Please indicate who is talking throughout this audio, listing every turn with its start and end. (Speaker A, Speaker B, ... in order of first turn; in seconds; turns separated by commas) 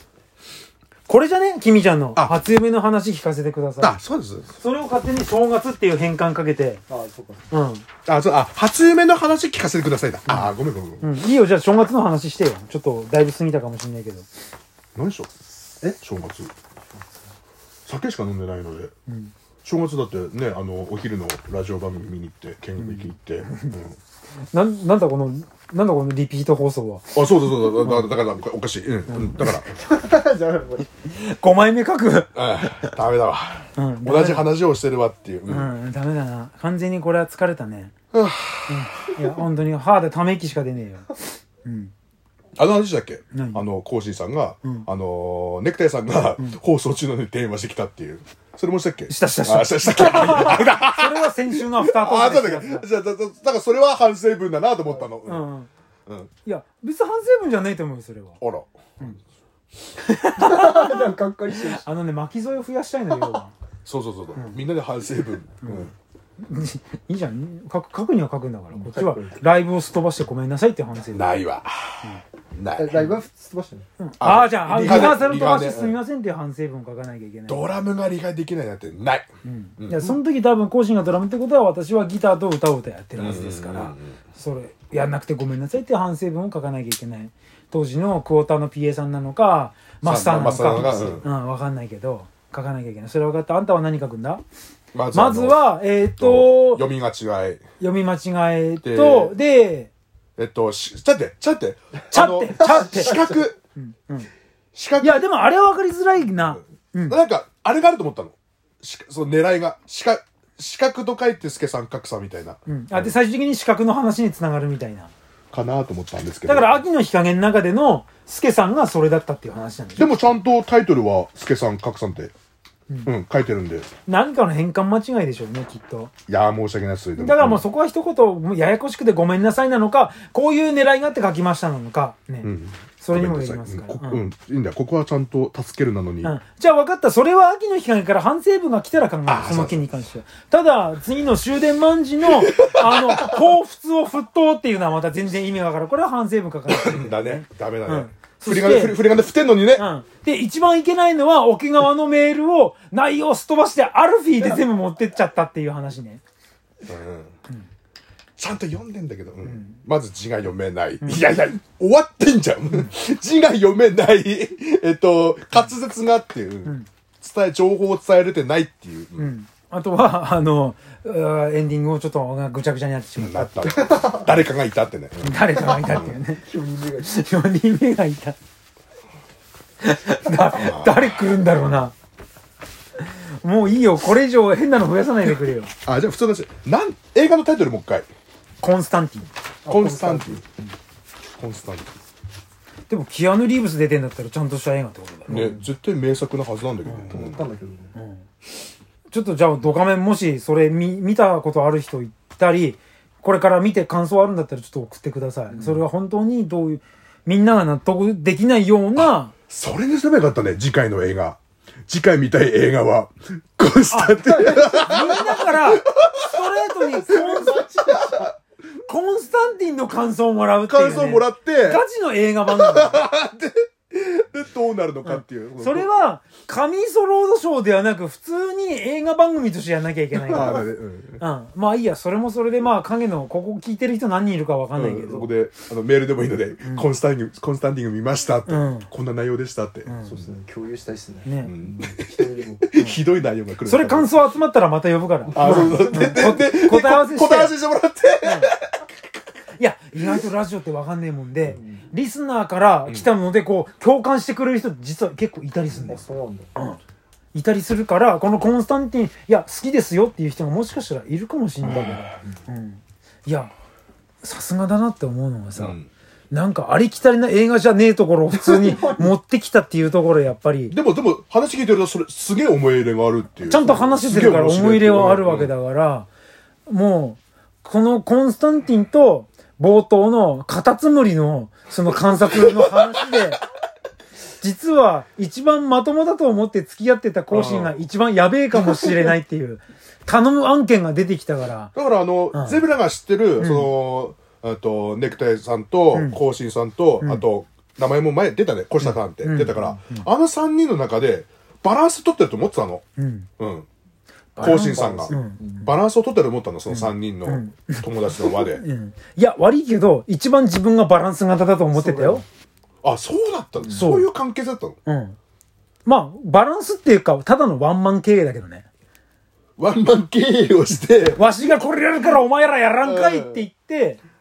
Speaker A: 1.1-4.0, Speaker B: 3.8-4.5, Speaker A: 4.5-6.8, Speaker C: 6.9-7.4, Speaker A: 7.5-7.8, Speaker B: 8.1-11.1, Speaker A: 10.3-14.3, Speaker B: 14.9-15.3, Speaker B: 15.9-16.5, Speaker B: 17.9-18.9, Speaker A: 19.1-19.3, Speaker B: 19.6-24.0, Speaker A: 22.8-23.8, Speaker A: 24.5-27.1, Speaker B: 27.1-29.7, Speaker A: 27.8-28.1, Speaker A: 29.1-29.5, Speaker C: 29.7-30.9, Speaker A: 31.0-32.3, Speaker B: 32.3-35.7, Speaker A: 33.8-34.5, Speaker A: 35.5-37.9, Speaker B: 38.1-38.8, Speaker A: 38.7-41.9, Speaker B: 42.6-55.5, Speaker A: 43.3-43.6, Speaker A: 49.1-52.9, Speaker A: 55.2-55.7, Speaker A: 56.4-58.4, Speaker B: 58.4-59.1, Speaker A: 60.0-63.5, Speaker C: 60.3-61.8, Speaker B: 63.8-65.9, Speaker A: 65.6-71.3, Speaker C: 68.8-69.4, Speaker B: 71.1-72.0, Speaker B: 72.5-73.2, Speaker C: 72.8-73.8, Speaker A: 74.0-77.7, Speaker B: 74.2-76.0, Speaker B: 77.5-79.2, Speaker A: 79.4-94.4, Speaker B: 79.8-80.2, Speaker B: 83.2-84.1, Speaker B: 90.0-91.3, Speaker B: 94.9-95.6, Speaker A: 95.1-96.8, Speaker B: 96.2-97.6, Speaker A: 97.8-99.9, Speaker B: 98.8-99.4, Speaker B: 100.4-103.6, Speaker A: 102.1-103.2, Speaker C: 102.6-103.4, Speaker A: 103.8-104.3, Speaker B: 104.7-105.2, Speaker A: 105.0-107.2, Speaker B: 106.4-113.1, Speaker A: 112.7-115.1, Speaker B: 115.5-116.8, Speaker A: 116.5-120.3, Speaker B: 120.0-122.3, Speaker B: 123.0-123.9, Speaker A: 124.1-126.1, Speaker B: 126.3-127.6, Speaker A: 127.2-134.2, Speaker B: 132.4-136.3, Speaker A: 136.2-149.0, Speaker B: 139.3-139.8, Speaker B: 142.3-143.4, Speaker B: 146.7-149.8, Speaker A: 149.7-156.2, Speaker B: 156.8-157.3, Speaker B: 158.4-169.3, Speaker A: 159.4-159.8, Speaker A: 161.0-161.2, Speaker A: 169.2-173.7, Speaker B: 173.2-176.2, Speaker C: 173.9-174.3, Speaker A: 175.2-176.4, Speaker C: 176.4-177.1, Speaker A: 177.0-178.4, Speaker A: 179.8-181.9, Speaker B: 180.5-181.2, Speaker A: 183.0-185.7, Speaker B: 185.8-188.1, Speaker A: 188.6-189.3, Speaker C: 189.6-190.5, Speaker B: 189.7-190.4, Speaker B: 191.4-191.9, Speaker A: 192.9-195.5, Speaker B: 195.3-197.4, Speaker C: 195.3-195.6, Speaker A: 196.8-197.1, Speaker C: 197.1-197.9, Speaker A: 197.9-198.2, Speaker A: 199.1-209.3, Speaker C: 205.5-205.8, Speaker B: 208.9-218.3, Speaker A: 213.9-217.7, Speaker C: 214.3-215.0, Speaker C: 217.0-218.2, Speaker A: 218.8-223.0, Speaker B: 220.7-221.8, Speaker B: 222.5-225.9, Speaker A: 225.0-230.7, Speaker B: 230.1-231.2, Speaker A: 231.2-235.3, Speaker B: 234.8-239.9, Speaker A: 238.4-238.9, Speaker A: 239.8-240.2, Speaker C: 240.0-242.7, Speaker A: 241.2-241.5, Speaker B: 241.4-244.2, Speaker A: 243.6-247.5, Speaker C: 245.3-246.3, Speaker B: 245.3-248.8, Speaker A: 248.2-248.5, Speaker A: 249.6-256.0, Speaker C: 251.5-251.8, Speaker C: 255.8-256.5, Speaker A: 257.3-263.5, Speaker B: 261.7-262.0, Speaker A: 264.2-265.8, Speaker B: 265.6-265.9, Speaker A: 266.3-270.7, Speaker C: 268.3-269.1, Speaker B: 270.7-275.5, Speaker A: 273.4-276.1, Speaker A: 276.6-283.4, Speaker B: 282.1-283.0, Speaker A: 284.4-291.7, Speaker B: 287.3-287.8, Speaker B: 291.7-302.8, Speaker A: 292.3-292.6, Speaker A: 293.4-293.7, Speaker A: 295.9-296.2, Speaker A: 298.8-300.1, Speaker A: 303.0-303.3, Speaker B: 303.4-303.7, Speaker A: 304.4-305.7, Speaker B: 304.4-308.6, Speaker C: 304.4-305.6, Speaker A: 306.7-312.2, Speaker C: 311.7-312.2, Speaker B: 312.8-314.8, Speaker C: 313.6-313.9, Speaker A: 313.7-314.1, Speaker A: 314.9-315.2, Speaker A: 315.8-318.6, Speaker B: 319.6-321.2, Speaker A: 321.1-324.0, Speaker B: 322.8-323.4